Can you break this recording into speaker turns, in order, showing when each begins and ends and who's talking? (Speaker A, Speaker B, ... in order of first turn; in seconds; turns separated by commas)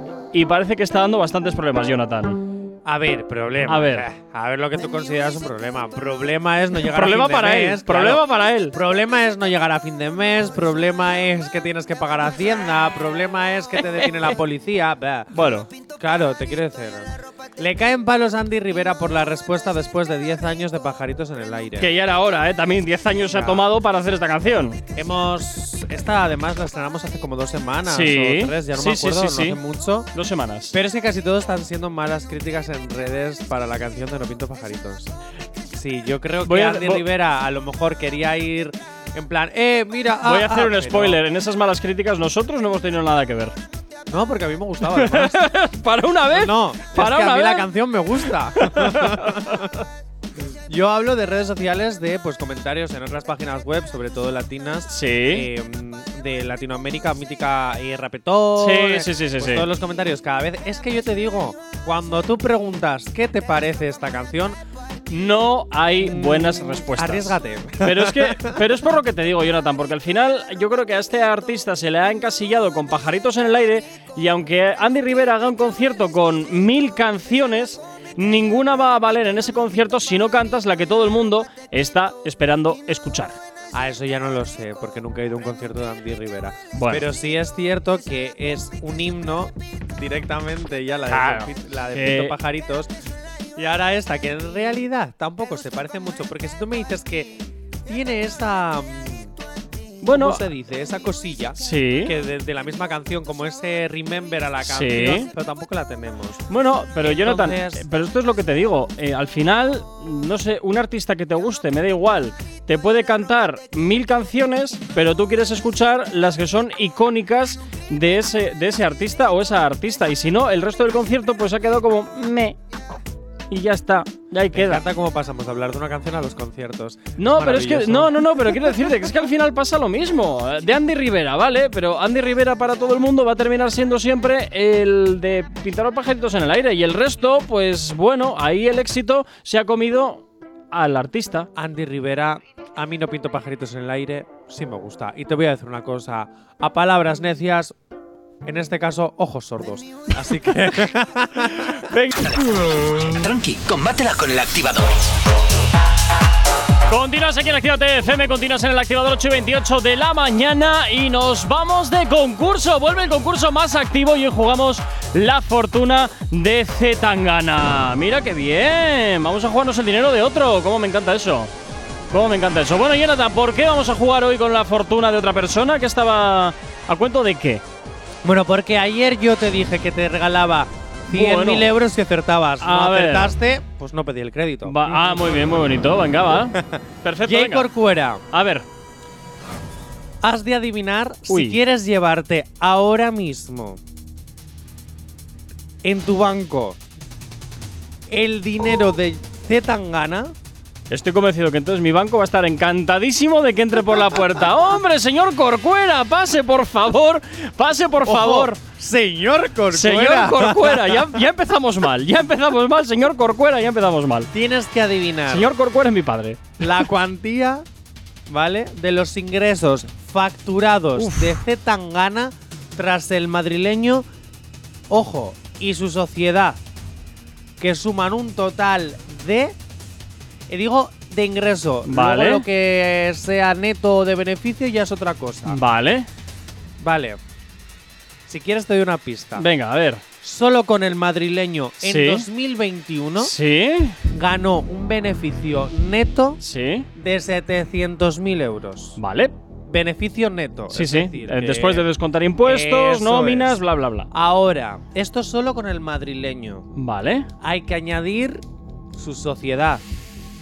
Speaker A: 0.3-2.4, Speaker B: 2.8-21.9, Speaker A: 3.7-4.1, Speaker A: 6.8-8.7, Speaker A: 15.3-15.7, Speaker A: 21.8-24.8, Speaker B: 23.3-23.7, Speaker B: 24.9-30.1, Speaker A: 27.9-29.6, Speaker A: 30.1-30.7, Speaker B: 30.7-35.1, Speaker B: 35.7-41.2, Speaker A: 36.4-37.0, Speaker A: 40.2-43.5, Speaker B: 44.1-45.5, Speaker A: 44.8-47.7, Speaker B: 46.3-49.7, Speaker A: 48.5-49.7, Speaker B: 50.7-64.6, Speaker A: 54.9-55.5, Speaker A: 58.6-59.7, Speaker A: 65.1-83.4, Speaker B: 66.0-68.6, Speaker B: 83.7-92.9, Speaker A: 86.7-87.0, Speaker A: 91.1-92.3, Speaker B: 93.6-99.3, Speaker A: 100.0-100.4, Speaker B: 100.1-106.4, Speaker A: 101.6-102.1, Speaker A: 104.6-105.3, Speaker A: 106.5-122.6, Speaker B: 107.0-107.8, Speaker A: 123.5-124.8, Speaker B: 124.5-128.7, Speaker A: 127.2-141.5, Speaker B: 141.5-147.8, Speaker B: 148.4-151.8, Speaker A: 151.6-152.3, Speaker C: 152.2-155.1, Speaker A: 156.9-171.5, Speaker A: 172.1-177.6, Speaker B: 178.2-185.3, Speaker A: 181.1-181.7, Speaker A: 182.6-183.3, Speaker A: 184.6-187.7, Speaker B: 186.5-188.2, Speaker A: 188.3-188.6, Speaker B: 190.2-193.8, Speaker A: 191.3-191.6, Speaker B: 195.8-196.8, Speaker B: 198.1-200.3, Speaker A: 200.9-208.5, Speaker B: 208.0-211.2, Speaker A: 209.7-214.3, Speaker B: 214.3-215.5, Speaker A: 215.3-216.6, Speaker B: 216.6-217.7, Speaker B: 218.3-224.1, Speaker A: 221.0-221.4, Speaker B: 224.9-226.6, Speaker B: 227.6-229.6, Speaker B: 230.5-235.6, Speaker A: 231.8-232.4, Speaker A: 235.5-236.1, Speaker B: 236.8-237.2, Speaker B: 238.3-239.4, Speaker A: 239.3-240.0, Speaker B: 240.2-243.3, Speaker A: 241.8-242.3, Speaker A: 243.2-244.0, Speaker B: 244.1-246.4, Speaker A: 246.4-246.9, Speaker B: 246.9-249.0, Speaker A: 249.0-249.3, Speaker B: 249.7-251.9, Speaker A: 250.7-254.1, Speaker B: 252.4-253.6, Speaker B: 254.1-256.7, Speaker A: 256.8-257.3, Speaker B: 257.4-258.4, Speaker B: 258.9-259.8